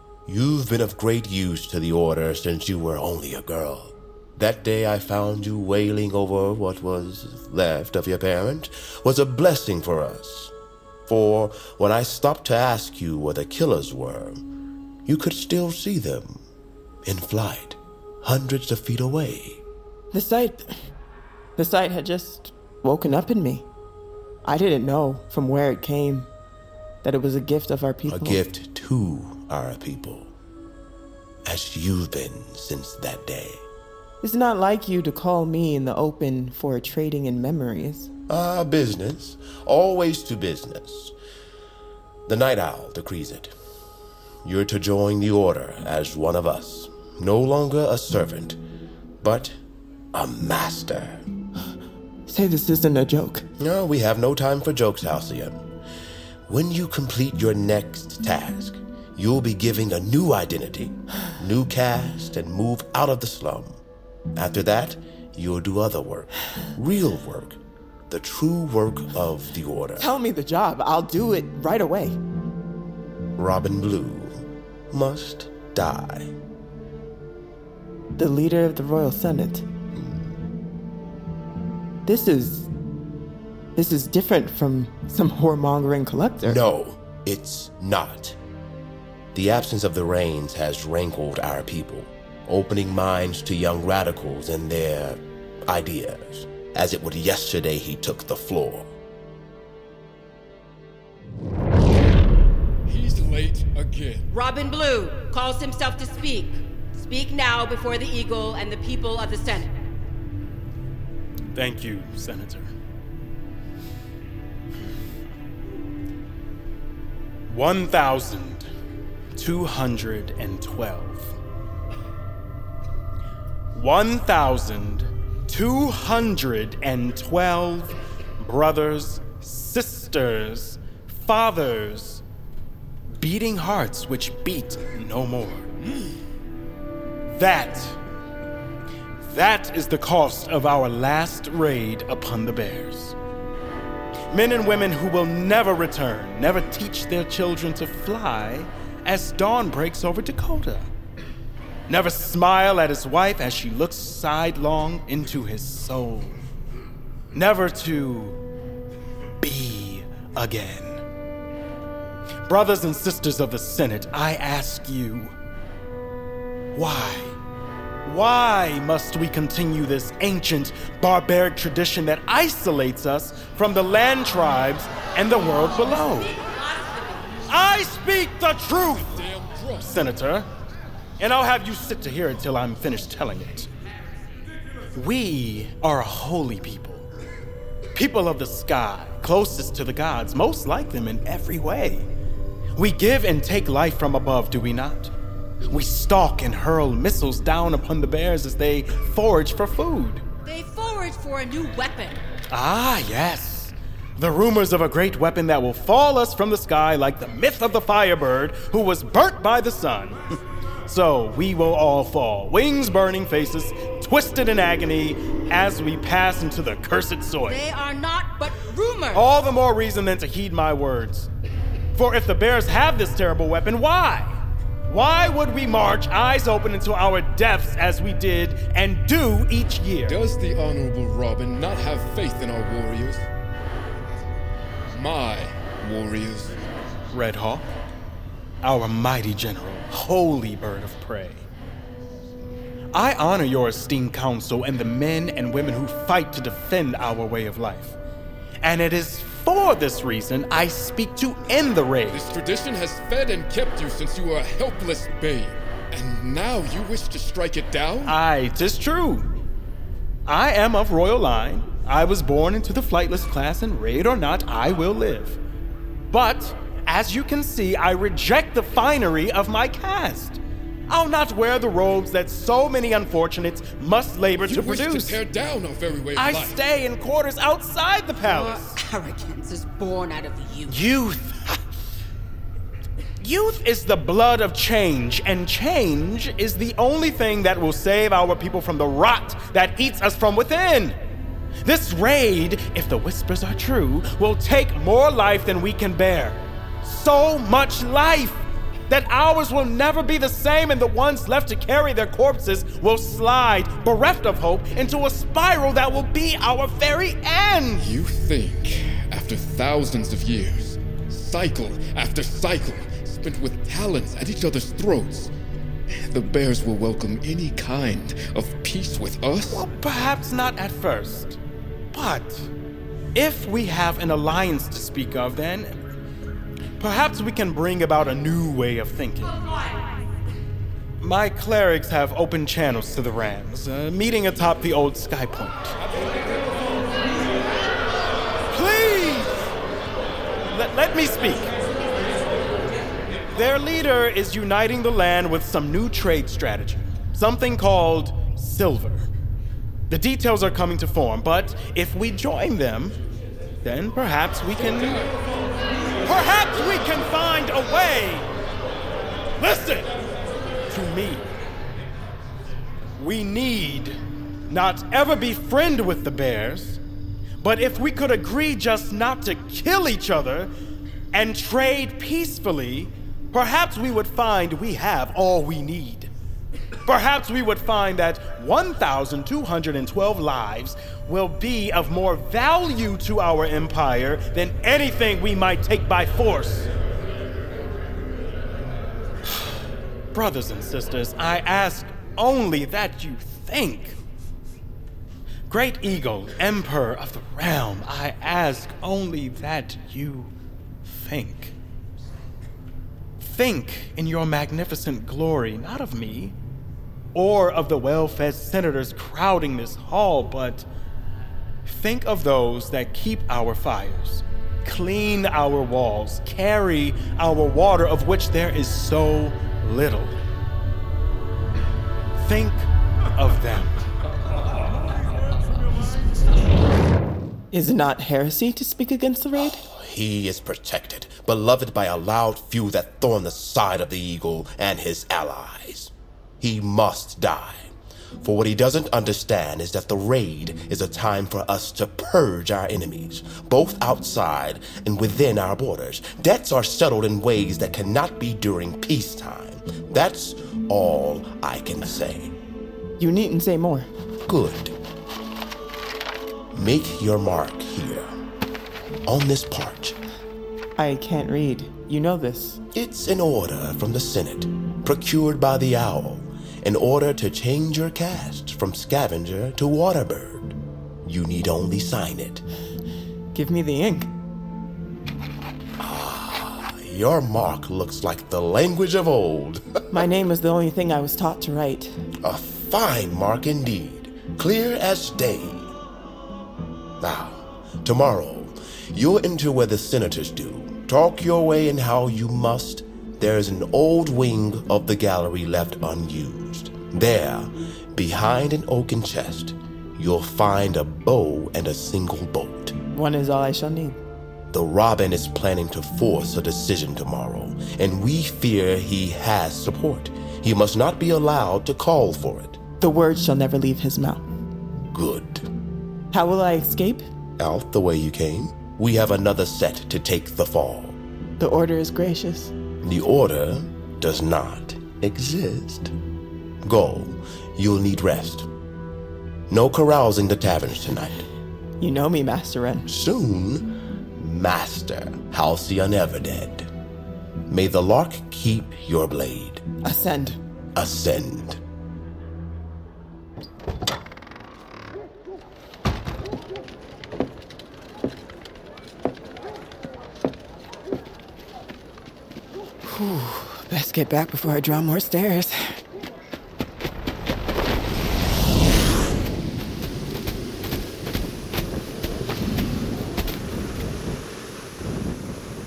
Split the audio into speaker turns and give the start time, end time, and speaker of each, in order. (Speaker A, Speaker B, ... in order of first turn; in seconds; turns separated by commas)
Speaker A: 0.2-10.5, Speaker A: 11.1-14.4, Speaker A: 15.1-16.4, Speaker A: 17.0-19.6, Speaker B: 20.1-20.7, Speaker B: 21.6-23.7, Speaker B: 24.4-26.3, Speaker B: 27.0-28.4, Speaker A: 28.1-30.3, Speaker A: 31.4-33.6, Speaker B: 34.2-38.1, Speaker A: 38.3-41.1, Speaker A: 42.2-43.5, Speaker A: 44.4-48.6, Speaker A: 49.2-49.6, Speaker A: 50.1-51.2, Speaker B: 52.3-53.5, Speaker A: 53.6-55.6, Speaker A: 56.5-63.8, Speaker A: 64.3-67.6, Speaker A: 68.1-70.1, Speaker B: 70.0-72.2, Speaker A: 73.4-76.3, Speaker B: 78.2-79.6, Speaker A: 79.9-80.3, Speaker B: 82.0-82.7, Speaker B: 83.8-86.6, Speaker A: 86.5-88.4, Speaker A: 89.3-98.9, Speaker C: 102.9-104.2, Speaker D: 104.3-109.7, Speaker E: 111.5-112.7, Speaker E: 117.5-118.7, Speaker E: 119.4-121.4, Speaker E: 123.7-132.2, Speaker E: 133.2-135.7, Speaker E: 137.3-138.0, Speaker E: 139.2-143.1, Speaker E: 144.3-150.9, Speaker E: 151.9-156.4, Speaker E: 157.3-158.4, Speaker E: 159.4-161.0, Speaker E: 162.5-165.3, Speaker E: 166.8-167.3, Speaker E: 168.0-176.3, Speaker D: 175.7-177.3, Speaker E: 177.5-179.2, Speaker C: 179.1-180.0, Speaker E: 179.8-180.5, Speaker E: 181.2-183.7, Speaker E: 184.9-187.1, Speaker E: 187.9-192.1, Speaker E: 192.8-195.1, Speaker E: 195.7-200.2, Speaker D: 200.4-202.2, Speaker E: 202.5-210.2, Speaker E: 210.9-217.6, Speaker D: 217.4-219.3, Speaker E: 219.1-221.3, Speaker E: 221.9-224.3, Speaker E: 224.9-230.1, Speaker C: 230.1-233.2, Speaker C: 234.9-236.6, Speaker E: 237.1-237.6, Speaker E: 238.6-241.4, Speaker E: 242.9-247.9, Speaker E: 248.6-252.2, Speaker C: 252.1-258.1, Speaker E: 258.1-259.3, Speaker E: 260.3-265.4, Speaker E: 266.1-275.2, Speaker C: 274.4-276.6, Speaker E: 276.1-278.8, Speaker D: 278.2-280.8, Speaker E: 280.7-281.6, Speaker E: 283.2-290.9, Speaker E: 291.6-307.9, Speaker C: 307.8-315.3, Speaker C: 316.1-319.7, Speaker E: 319.5-321.4, Speaker E: 321.9-322.5, Speaker E: 323.1-325.8, Speaker E: 326.8-329.4, Speaker E: 331.0-335.8, Speaker E: 338.5-339.5, Speaker E: 340.5-341.5, Speaker E: 343.3-349.1, Speaker E: 349.9-353.0, Speaker E: 353.6-355.1, Speaker E: 356.0-358.3, Speaker E: 359.4-359.9, Speaker E: 360.7-361.3, Speaker E: 363.0-364.0, Speaker E: 364.5-366.8, Speaker E: 367.4-370.5, Speaker E: 371.1-376.1, Speaker E: 376.9-386.7, Speaker E: 390.1-394.0, Speaker E: 395.5-400.3, Speaker E: 400.9-401.6, Speaker E: 403.2-406.4, Speaker E: 407.1-410.7, Speaker E: 411.6-420.1, Speaker E: 422.2-423.8, Speaker B: 427.5-429.6, Speaker A: 429.4-452.4, Speaker B: 453.0-453.9, Speaker A: 454.2-454.7, Speaker A: 456.5-458.1, Speaker A: 459.1-460.0, Speaker B: 460.8-462.6, Speaker A: 462.7-472.4, Speaker B: 473.3-474.1, Speaker A: 475.8-479.9, Speaker B: 479.9-481.9, Speaker A: 482.2-485.7, Speaker A: 487.0-502.7, Speaker B: 502.9-504.0, Speaker A: 504.5-512.6, Speaker B: 512.8-514.2, Speaker A: 514.9-515.5, Speaker B: 516.1-517.1, Speaker A: 517.4-521.0, Speaker B: 521.4-522.5, Speaker A: 522.8-525.9, Speaker A: 526.6-528.5, Speaker A: 529.5-531.2, Speaker B: 531.8-532.9, Speaker A: 532.9-536.7, Speaker A: 537.5-539.6, Speaker B: 539.8-540.4, Speaker A: 540.7-541.6, Speaker B: 552.8-555.8